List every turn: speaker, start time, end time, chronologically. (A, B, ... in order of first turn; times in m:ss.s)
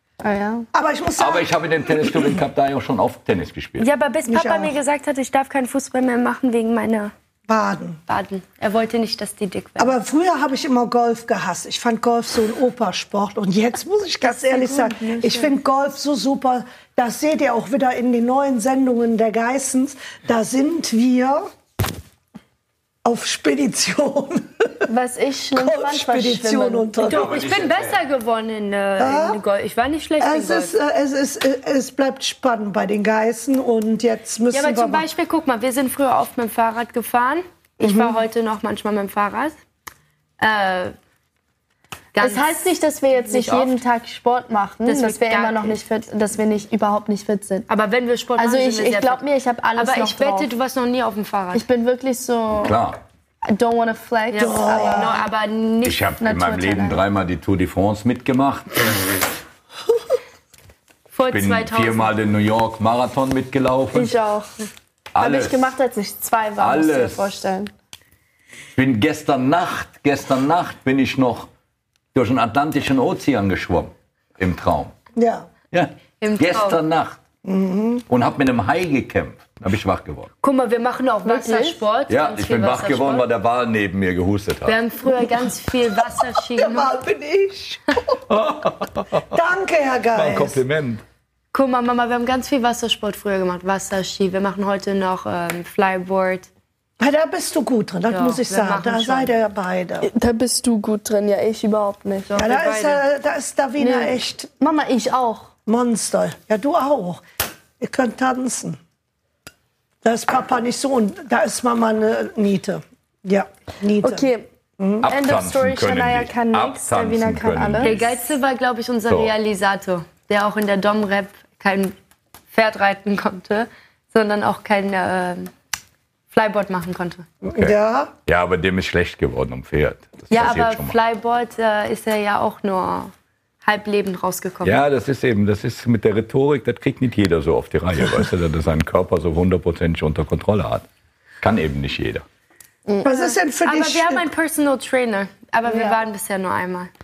0:00.2-0:00.7 A
0:00.7-0:02.4 B
0:01.2-0:03.9 C
0:03.8-0:07.1 D
0:04.3-0:04.8 B
0:07.5-0:08.0 B
0:08.1-0:09.9 D
0:09.8-0:21.5 B
0:14.5-0:15.4 D
0:23.0-0:24.9 B
0:24.9-0:27.0 A
0:25.5-0:27.3 B
0:27.0-0:30.7 D
0:27.1-0:28.0 C
0:29.0-0:29.4 B
0:30.2-0:35.0 B
0:34.5-0:39.6 D
0:37.8-0:38.2 B
0:40.4-0:40.9 D
0:42.1-0:42.7 D
0:42.2-0:47.7 A
0:43.2-0:43.8 D
0:44.8-0:45.8 D
0:47.7-0:49.2 D
0:48.4-0:50.5 A
0:49.8-0:51.6 D
0:51.5-0:52.8 A
0:52.6-0:53.0 C
0:53.4-0:55.2 A
0:54.3-0:56.0 D
0:54.4-0:55.2 B
0:55.8-0:58.8 C
0:56.2-0:57.0 A
1:01.1-1:02.1 D
1:01.3-1:04.1 C
1:03.9-1:04.5 A
1:05.1-1:05.6 C
1:05.2-1:07.7 A
1:06.6-1:07.3 C
1:08.8-1:11.5 C
1:12.1-1:14.9 C
1:15.2-1:15.5 B
1:15.7-1:17.2 C
1:16.2-1:16.8 D
1:17.4-1:18.0 B
1:18.1-1:20.3 C
1:20.4-1:23.3 D
1:21.2-1:21.8 A
1:22.1-1:24.8 C
1:24.7-1:26.9 D
1:26.5-1:28.2 B
1:28.3-1:29.3 C
1:29.3-1:30.6 B
1:30.1-1:31.0 C
1:31.5-1:36.5 D
1:37.0-1:40.1 B
1:38.1-1:39.3 D
1:40.0-1:42.3 A
1:42.3-1:43.0 D
1:42.3-1:44.5 B
1:43.8-1:45.5 A
1:45.7-1:47.2 B
1:47.8-1:48.8 B
1:50.0-1:54.3 B
1:54.0-1:54.5 A
1:54.8-1:55.0 B
1:55.0-1:58.2 C
1:55.0-1:58.0 A
1:57.8-2:01.9 D
1:59.1-1:59.3 C
2:02.5-2:05.5 D
2:06.3-2:07.3 D
2:07.4-2:08.1 B
2:08.2-2:11.0 C
2:10.3-2:13.1 D
2:13.6-2:14.8 D
2:14.6-2:20.8 C
2:21.4-2:22.2 C
2:22.9-2:23.1 A
2:23.0-2:24.2 B
2:23.1-2:26.9 D
2:25.7-2:26.0 A